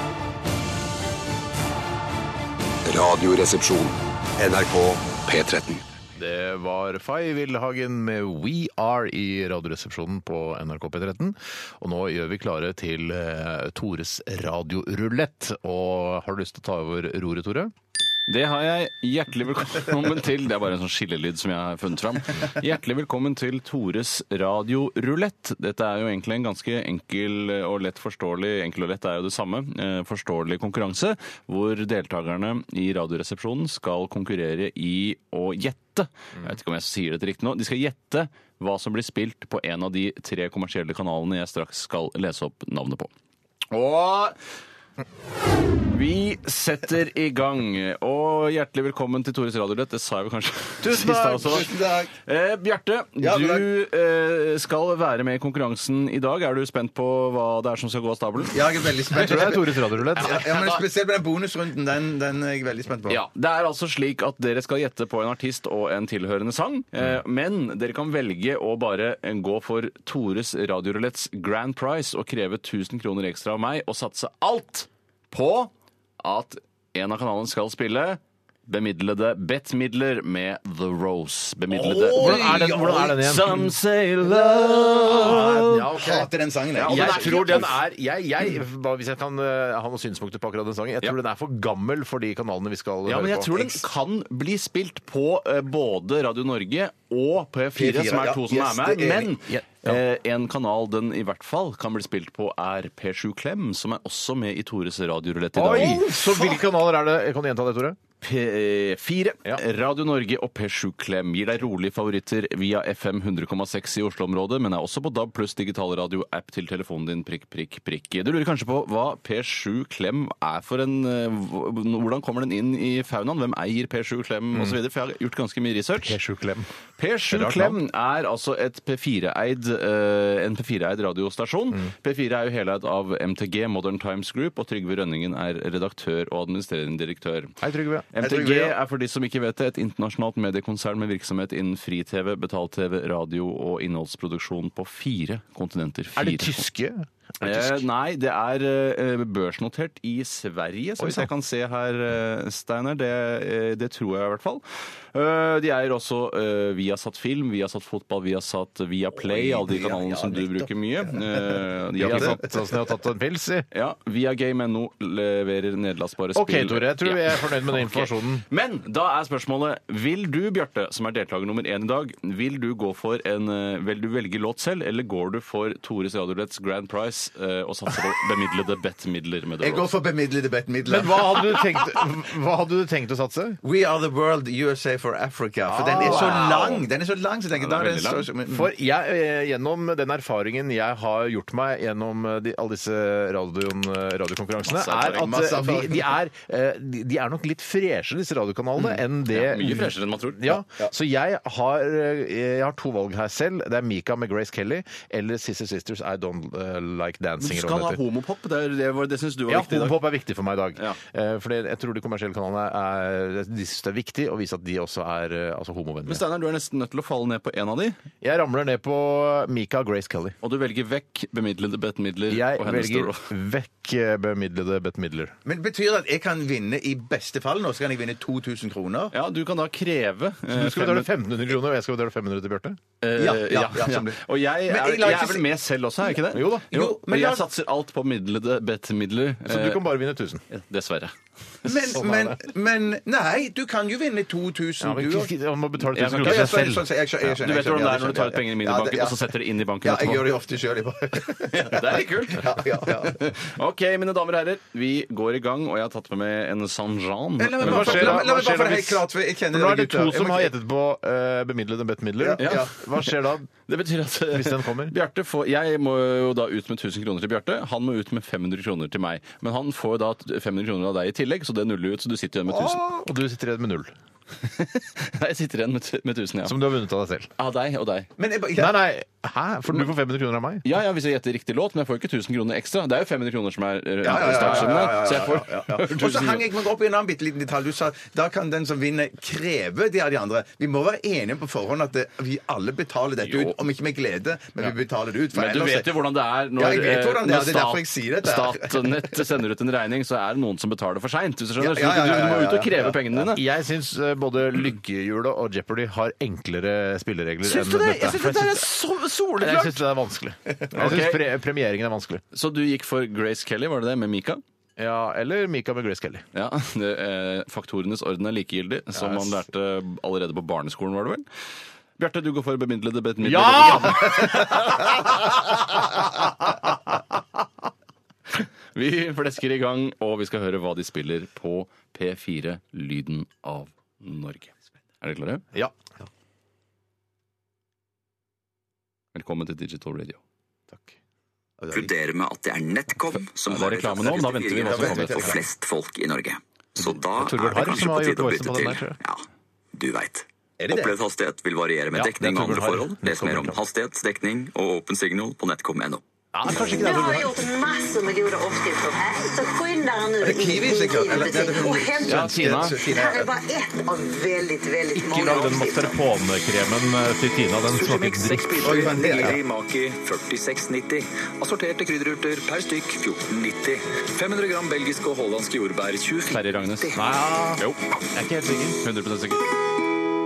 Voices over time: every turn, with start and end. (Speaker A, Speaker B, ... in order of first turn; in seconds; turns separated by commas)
Speaker A: 2.9-5.8, Speaker B: 6.2-17.7, Speaker C: 18.3-43.1, Speaker C: 43.7-44.4, Speaker C: 45.9-51.7, Speaker B: 50.8-51.7, Speaker D: 51.5-52.1, Speaker C: 52.2-58.6, Speaker D: 53.2-53.7, Speaker D: 58.5-63.2, Speaker B: 59.1-60.4, Speaker C: 60.2-60.9, Speaker C: 63.1-85.9, Speaker D: 81.7-83.4, Speaker B: 82.2-83.7, Speaker B: 84.9-93.7, Speaker D: 85.9-87.8, Speaker C: 86.8-87.7, Speaker C: 93.1-106.1, Speaker D: 97.8-99.3, Speaker B: 99.5-100.0, Speaker B: 105.5-108.0, Speaker C: 108.2-126.2, Speaker B: 126.0-126.7, Speaker C: 127.0-137.6, Speaker B: 127.3-127.8, Speaker B: 137.6-138.1, Speaker C: 138.1-146.7, Speaker D: 138.2-138.8, Speaker B: 146.2-147.8, Speaker C: 147.4-162.4, Speaker B: 151.0-151.3, Speaker D: 159.2-162.6, Speaker B: 162.0-163.7, Speaker C: 163.7-179.9, Speaker B: 166.3-168.4, Speaker D: 179.6-181.8, Speaker B: 180.8-183.6, Speaker D: 183.6-188.7, Speaker B: 185.7-186.8, Speaker C: 185.9-186.8, Speaker C: 187.6-188.3, Speaker B: 188.5-208.0, Speaker C: 194.7-195.3, Speaker D: 195.0-196.1, Speaker C: 198.8-200.6, Speaker C: 207.4-210.0, Speaker B: 209.5-216.2, Speaker C: 216.1-218.0, Speaker B: 218.2-220.4, Speaker C: 220.4-223.3, Speaker B: 222.3-225.3, Speaker D: 225.4-229.1, Speaker C: 229.1-231.1, Speaker B: 230.5-232.8, Speaker C: 233.0-239.9, Speaker D: 233.2-235.5, Speaker B: 236.3-236.7, Speaker D: 236.7-237.5, Speaker B: 239.4-240.4, Speaker C: 240.5-241.2, Speaker D: 241.7-245.3, Speaker B: 241.9-242.4, Speaker B: 244.8-246.9, Speaker C: 245.9-246.7, Speaker D: 246.2-253.2, Speaker C: 247.3-250.3, Speaker C: 251.5-258.3, Speaker D: 257.4-260.5, Speaker B: 257.6-263.5, Speaker D: 262.2-262.7, Speaker C: 262.4-263.1, Speaker C: 263.7-272.9, Speaker B: 264.3-264.9, Speaker B: 272.5-273.9, Speaker C: 274.4-276.6, Speaker B: 276.4-277.3, Speaker C: 277.4-278.1, Speaker D: 278.2-278.8, Speaker B: 278.6-280.7, Speaker C: 280.6-286.5, Speaker D: 284.0-295.9, Speaker B: 284.1-284.9, Speaker C: 293.2-293.6, Speaker C: 295.3-303.4, Speaker D: 296.6-299.2, Speaker D: 301.6-303.2, Speaker B: 303.3-308.7, Speaker C: 307.4-309.8, Speaker B: 309.4-312.2, Speaker C: 310.7-311.2, Speaker C: 312.3-314.4, Speaker B: 314.8-316.2, Speaker C: 316.3-321.3, Speaker B: 318.9-319.4, Speaker C: 322.0-325.0, Speaker B: 323.2-326.9, Speaker C: 328.4-335.4, Speaker C: 339.1-340.2, Speaker D: 341.6-341.9, Speaker E: 341.7-349.2, Speaker C: 343.4-345.4, Speaker D: 344.6-345.4, Speaker B: 347.1-349.0, Speaker E: 349.7-356.0, Speaker D: 350.6-351.0, Speaker B: 351.9-353.6, Speaker B: 356.3-357.4, Speaker F: 356.5-366.0, Speaker D: 360.2-363.3, Speaker C: 362.1-362.8, Speaker B: 364.9-369.4, Speaker E: 367.7-376.9, Speaker D: 368.6-369.4, Speaker C: 376.3-377.0, Speaker B: 376.9-378.8, Speaker C: 378.8-379.4